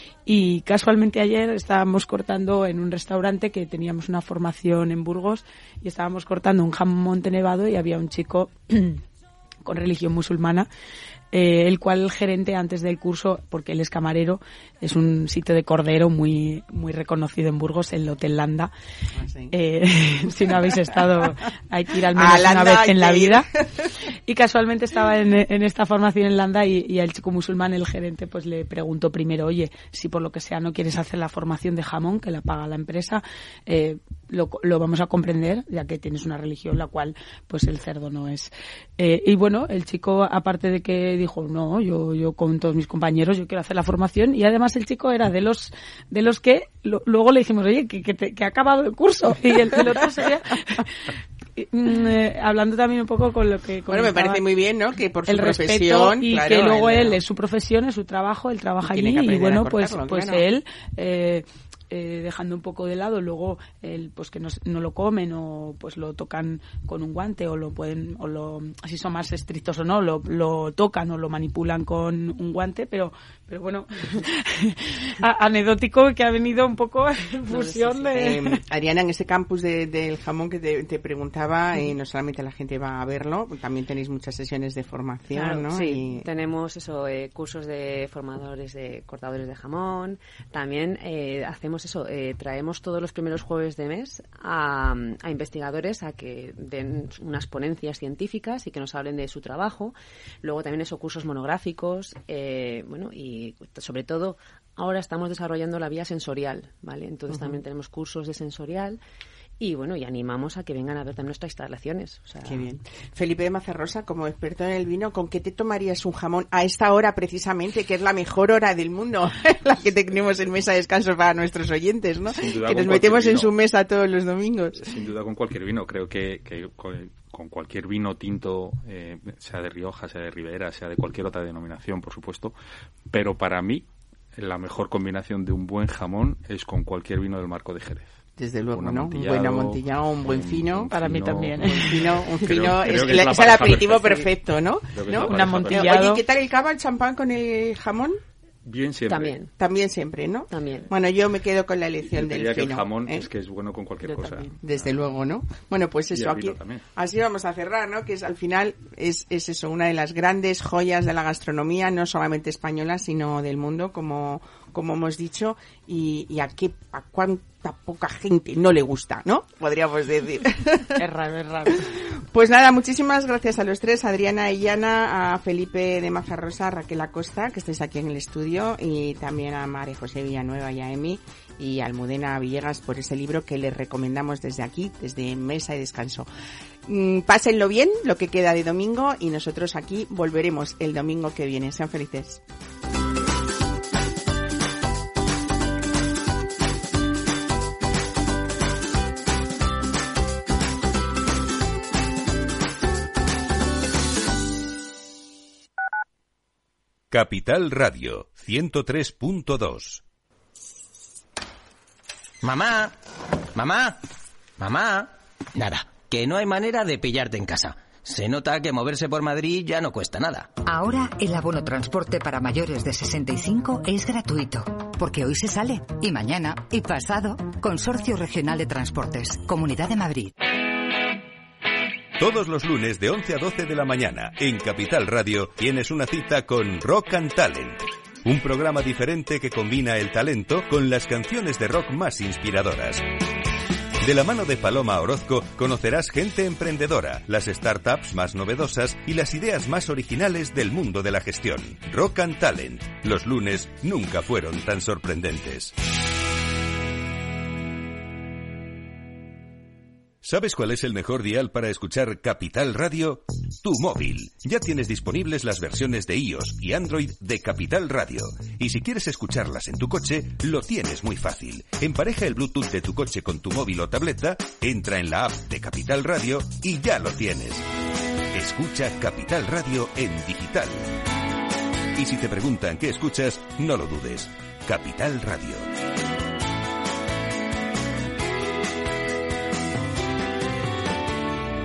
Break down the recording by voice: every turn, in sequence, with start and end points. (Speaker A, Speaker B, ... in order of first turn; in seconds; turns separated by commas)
Speaker A: 0.2-9.0, Speaker A: 9.6-10.7, Speaker A: 11.3-18.7, Speaker B: 19.1-19.5, Speaker A: 19.5-23.5, Speaker B: 22.1-23.9, Speaker A: 24.3-54.4, Speaker B: 53.9-57.2, Speaker A: 55.3-78.6, Speaker B: 58.8-60.4, Speaker C: 77.5-78.1, Speaker B: 78.1-86.2, Speaker C: 85.3-109.0, Speaker C: 109.6-112.7, Speaker B: 112.4-124.9, Speaker D: 122.2-123.5, Speaker D: 124.8-132.5, Speaker D: 133.1-133.8, Speaker D: 134.3-138.1, Speaker B: 138.4-141.0, Speaker D: 138.7-144.3, Speaker A: 140.9-142.1, Speaker B: 141.8-148.2, Speaker D: 144.9-146.0, Speaker A: 145.1-146.2, Speaker D: 148.6-149.4, Speaker C: 149.1-149.5, Speaker B: 149.6-153.2, Speaker C: 150.5-150.9, Speaker D: 152.1-154.8, Speaker C: 154.1-154.5, Speaker B: 154.6-171.0, Speaker D: 156.1-156.8, Speaker A: 171.0-171.8, Speaker B: 172.0-186.3, Speaker B: 186.8-192.4, Speaker E: 207.1-210.0, Speaker F: 212.4-213.0, Speaker F: 213.5-214.0, Speaker F: 214.6-220.5, Speaker G: 220.7-230.3, Speaker E: 232.2-243.0, Speaker E: 244.0-255.7, Speaker E: 260.2-277.6, Speaker E: 278.3-280.9, Speaker E: 281.9-285.7